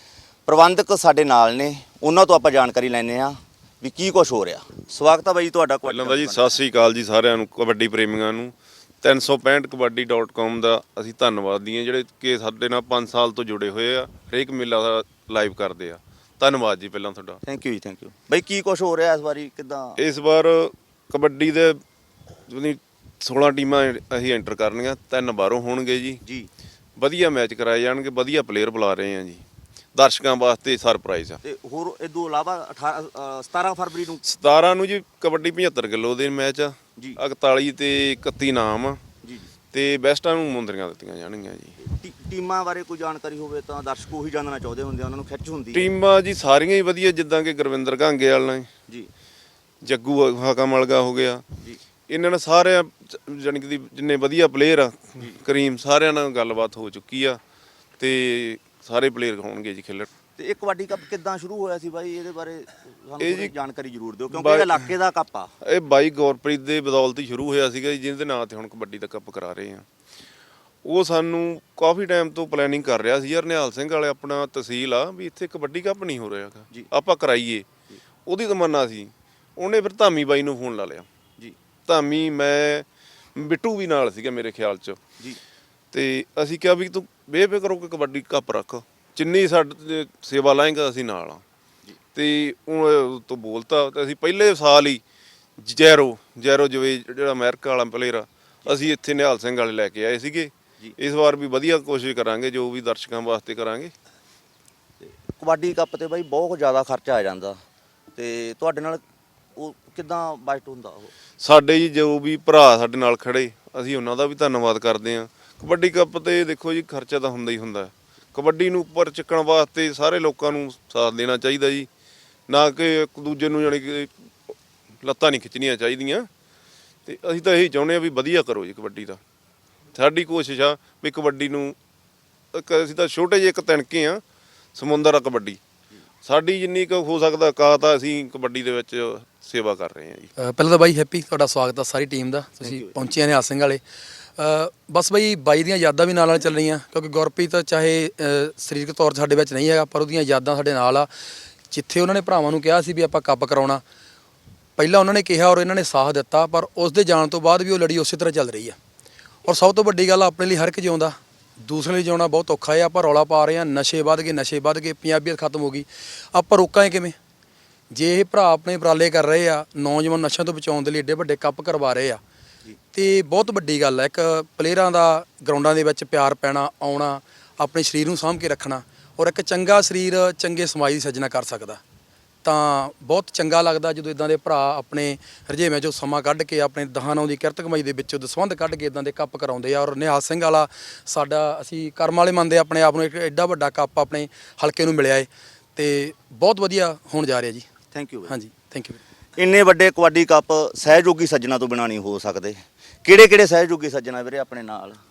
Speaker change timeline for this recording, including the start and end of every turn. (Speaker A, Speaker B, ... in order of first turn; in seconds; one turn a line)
Speaker A: 0.5-6.6
Speaker B: 5.8-17.4
Speaker A: 17.4-20.0
Speaker B: 20.0-21.8
Speaker B: 22.5-26.2
Speaker A: 26.2-26.5
Speaker B: 27.0-29.4
Speaker B: 29.9-31.4
Speaker A: 31.4-34.2
Speaker B: 34.2-39.0
Speaker A: 39.2-39.5
Speaker B: 39.7-41.8
Speaker A: 41.8-45.9
Speaker B: 45.7-48.7
Speaker B: 49.8-51.4
Speaker B: 52.1-57.4
Speaker B: 58.0-60.1
Speaker A: 60.4-65.5
Speaker B: 63.2-63.5
Speaker B: 64.3-64.8
Speaker B: 65.7-69.8
Speaker B: 70.8-77.7
Speaker B: 78.2-81.1
Speaker B: 81.9-82.8
Speaker B: 83.3-85.0
Speaker B: 85.9-91.4
Speaker B: 92.1-95.0
Speaker B: 95.6-103.9
Speaker A: 105.3-107.6
Speaker A: 108.2-109.0
Speaker A: 109.5-111.1
Speaker B: 111.4-121.9
Speaker B: 122.5-124.1
Speaker B: 125.0-126.3
Speaker B: 127.0-129.2
Speaker B: 129.9-131.7
Speaker B: 132.5-134.2
Speaker B: 134.7-135.6
Speaker B: 136.2-140.3
Speaker C: 140.4-143.8
Speaker A: 142.6-143.0
Speaker C: 144.4-151.1
Speaker C: 151.7-153.8
Speaker C: 154.8-158.8
Speaker C: 159.4-167.2
Speaker C: 167.9-172.2
Speaker C: 172.9-181.8
Speaker C: 182.4-197.6
Speaker A: 197.9-198.3
Speaker C: 198.3-199.0
Speaker A: 199.3-205.0